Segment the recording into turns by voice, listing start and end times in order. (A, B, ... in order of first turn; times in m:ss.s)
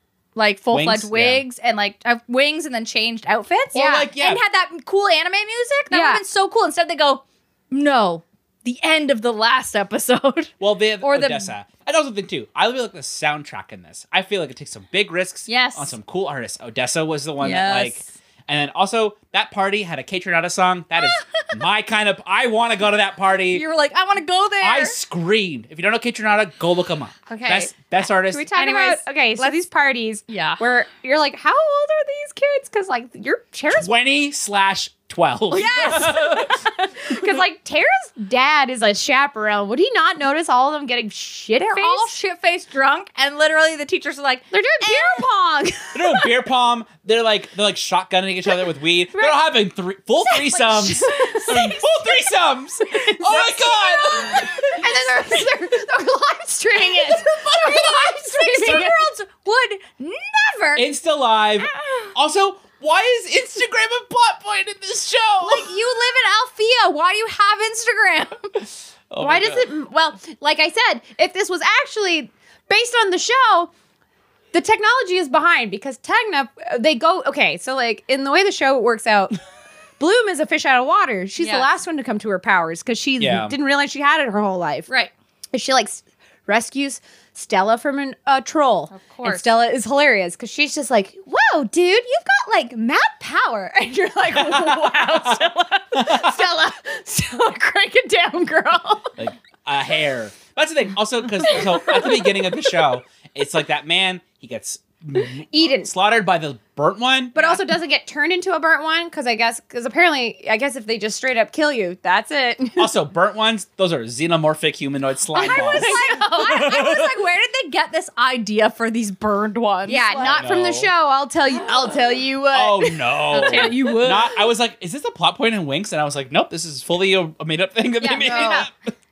0:00.4-0:11.5 A
0:00.7-0:01.4 B
0:03.7-0:04.4 B
0:03.7-0:04.1 C
0:05.9-0:06.2 C
0:10.6-0:23.6 B
0:15.5-0:15.9 A
0:17.4-0:18.0 A
0:21.0-0:21.5 A
0:23.5-0:25.0 A
0:24.6-0:28.5 B
0:27.3-0:27.7 C
0:28.3-0:33.9 C
0:28.5-0:29.6 A
0:30.3-0:30.6 A
0:33.7-0:36.6 B
0:35.5-0:36.8 A
0:37.0-0:42.1 C
0:41.7-0:45.2 A
0:44.5-0:46.3 C
0:45.9-0:55.0 B
0:50.4-0:51.8 A
0:51.0-0:51.9 C
0:53.0-0:59.1 C
0:54.1-0:54.4 A
0:57.0-1:00.9 A
1:00.8-1:05.7 B
1:05.4-1:08.6 A
1:09.1-1:09.7 B
1:09.2-1:13.7 C
1:14.5-1:19.4 C
1:20.0-1:24.9 C
1:21.4-1:21.7 A
1:23.2-1:23.5 B
1:25.5-1:39.2 C
1:28.9-1:29.5 A
1:34.3-1:35.4 B
1:35.9-1:36.4 B
1:39.2-1:47.4 B
1:41.4-1:42.7 C
1:45.5-1:45.9 C
1:47.3-1:52.9 C
1:47.4-1:47.6 A
1:52.8-1:57.2 B
1:55.3-1:56.7 C
1:55.3-2:00.4 A
1:59.8-2:04.1 C
2:00.2-2:00.9 B
2:02.5-2:08.9 B
2:03.3-2:04.3 A
2:08.0-2:08.7 A
2:08.0-2:08.7 C